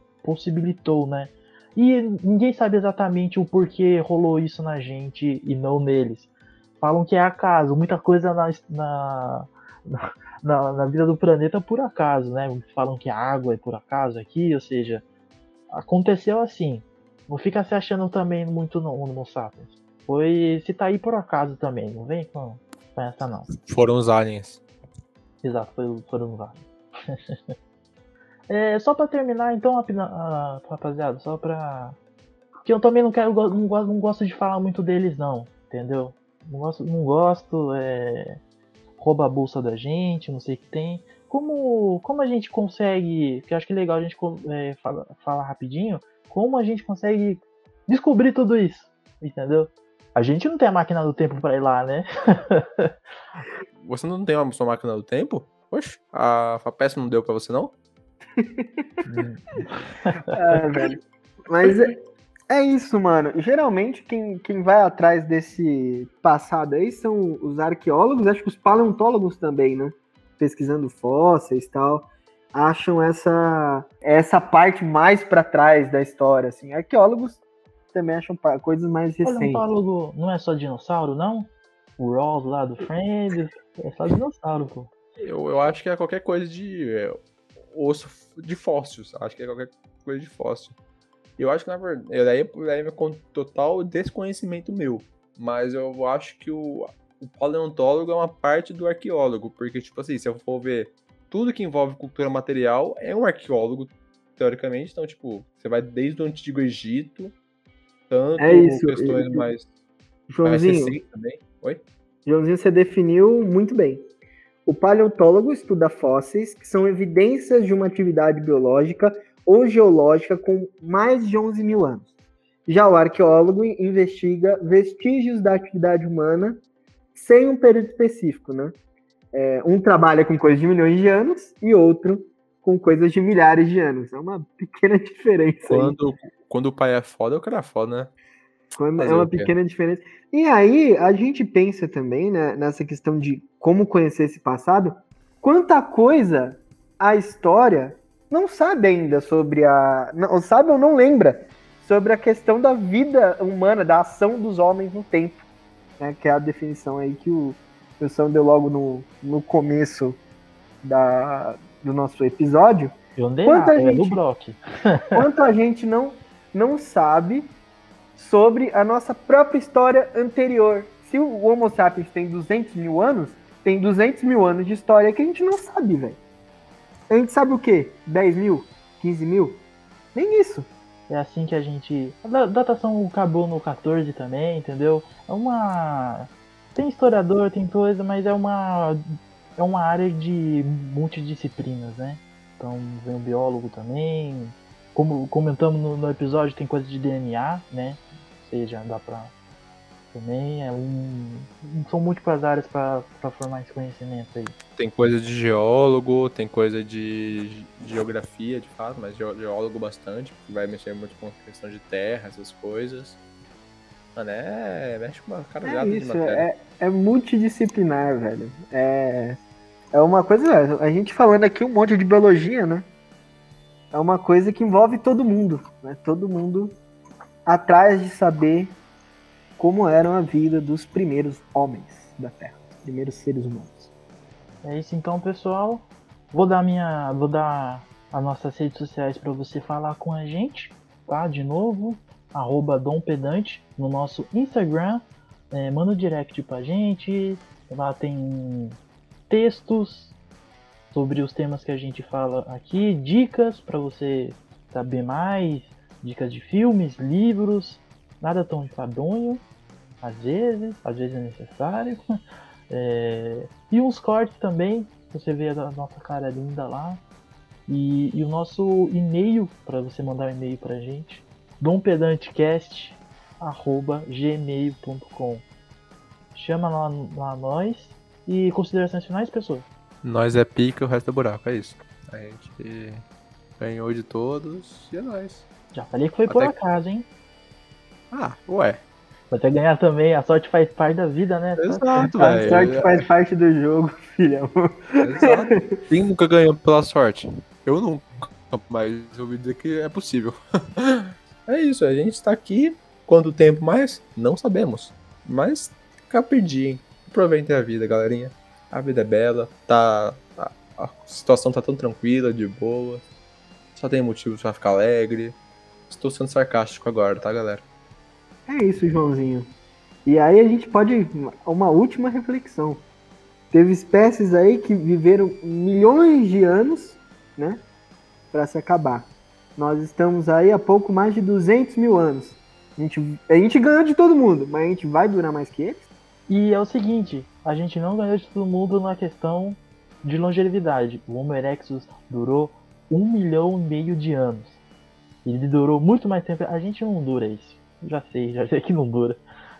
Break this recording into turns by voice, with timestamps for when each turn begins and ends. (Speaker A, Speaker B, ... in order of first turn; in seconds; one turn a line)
Speaker A: 0.2-15.0
Speaker A: 15.7-23.5
Speaker B: 23.5-24.6
Speaker A: 25.4-27.2
Speaker A: 28.5-32.0
Speaker A: 32.6-38.4
Speaker A: 39.0-52.9
Speaker B: 53.8-57.8
Speaker C: 58.4-58.8
Speaker A: 59.0-60.6
Speaker C: 60.3-62.0
Speaker C: 62.5-77.4
Speaker C: 77.9-79.7
Speaker A: 79.2-84.9
Speaker B: 85.2-87.2
Speaker B: 87.7-90.8
Speaker B: 91.4-107.4
Speaker B: 108.1-109.7
Speaker C: 108.4-109.5
Speaker C: 110.3-111.0
Speaker B: 110.4-111.8
Speaker C: 112.3-114.1
Speaker C: 114.7-122.1
Speaker C: 122.7-126.6
Speaker C: 127.1-128.8
Speaker C: 129.3-136.0
Speaker B: 135.7-138.1
Speaker C: 138.8-155.4
Speaker B: 139.0-139.6
Speaker C: 156.0-160.2
Speaker C: 160.8-164.2
Speaker A: 163.2-165.2
Speaker C: 165.1-167.5
Speaker C: 168.2-176.2
Speaker C: 177.1-179.6
Speaker C: 180.2-180.7
Speaker A: 181.1-189.0
Speaker A: 189.6-199.3
Speaker A: 200.1-204.6
Speaker B: 204.8-213.2
Speaker B: 214.2-216.5
Speaker C: 215.6-219.4
Speaker C: 219.9-222.9
Speaker C: 223.9-226.8
Speaker C: 227.5-228.8
Speaker C: 229.6-233.9
Speaker A: 234.6-248.8
Speaker A: 249.3-250.2
Speaker A: 250.9-259.4
Speaker A: 260.0-262.0
Speaker A: 262.7-267.0
Speaker A: 267.7-275.4
Speaker A: 276.4-279.7
Speaker B: 280.0-283.0
Speaker B: 283.6-285.5
Speaker A: 285.7-287.1
Speaker B: 286.3-286.6
Speaker B: 288.1-288.8
Speaker A: 289.3-292.7
Speaker B: 291.6-293.1
Speaker C: 292.2-295.8
Speaker B: 295.0-313.1
Speaker B: 313.8-315.4
Speaker B: 315.9-317.6
Speaker C: 318.5-319.5
Speaker C: 320.1-322.9
Speaker C: 323.5-327.6
Speaker C: 328.3-335.9
Speaker A: 336.3-344.6
Speaker A: 345.2-349.2